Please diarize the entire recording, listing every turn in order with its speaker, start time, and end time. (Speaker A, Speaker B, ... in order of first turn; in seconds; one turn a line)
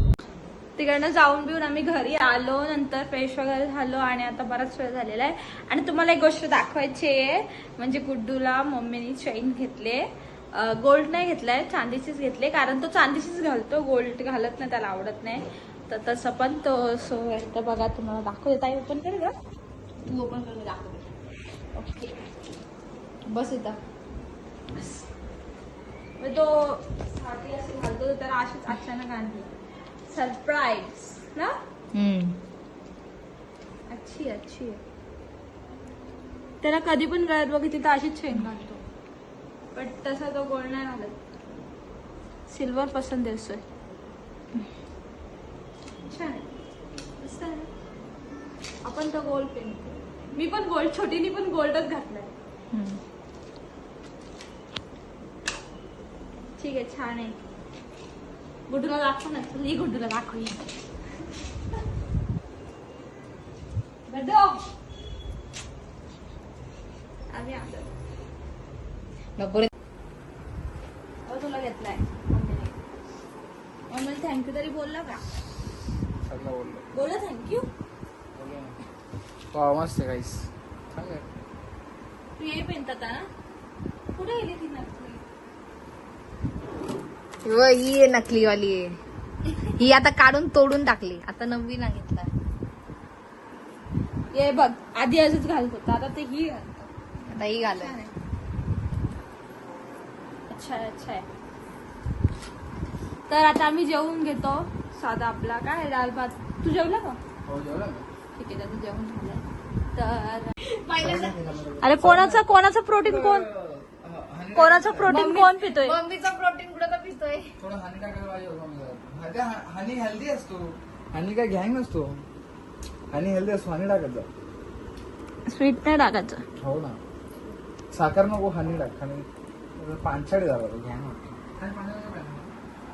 Speaker A: 0.8-10.0
Speaker A: 10.5-19.3
Speaker B: 20.1-21.1
Speaker A: 21.7-22.1
Speaker B: 23.3-23.8
Speaker A: 24.7-25.0
Speaker A: 26.2-29.5
Speaker A: 30.1-31.6
Speaker B: 31.9-32.4
Speaker A: 33.9-34.8
Speaker A: 36.6-38.8
Speaker A: 39.7-41.1
Speaker A: 42.5-43.6
Speaker A: 46.0-46.5
Speaker A: 47.2-47.7
Speaker A: 48.8-52.3
Speaker A: 56.6-57.4
Speaker A: 58.7-60.6
Speaker A: 64.1-64.7
Speaker A: 67.3-67.9
Speaker B: 69.4-69.7
Speaker A: 71.2-72.8
Speaker A: 73.9-75.2
Speaker C: 76.2-76.9
Speaker A: 76.9-77.7
Speaker C: 78.3-78.8
Speaker C: 79.5-81.3
Speaker A: 82.4-83.3
Speaker A: 84.1-85.2
Speaker B: 87.4-89.0
Speaker B: 89.8-92.3
Speaker A: 94.3-98.1
Speaker B: 97.3-98.0
Speaker A: 100.5-101.2
Speaker A: 103.3-107.2
Speaker C: 107.4-108.1
Speaker A: 108.3-109.4
Speaker A: 109.9-110.5
Speaker B: 110.6-111.5
Speaker C: 111.0-112.5
Speaker A: 111.8-113.5
Speaker C: 113.0-115.3
Speaker A: 114.5-116.0
Speaker B: 115.1-117.6
Speaker C: 117.6-122.2
Speaker C: 123.1-124.3
Speaker A: 125.5-126.4
Speaker C: 126.6-127.0
Speaker C: 127.9-129.2
Speaker C: 129.8-132.5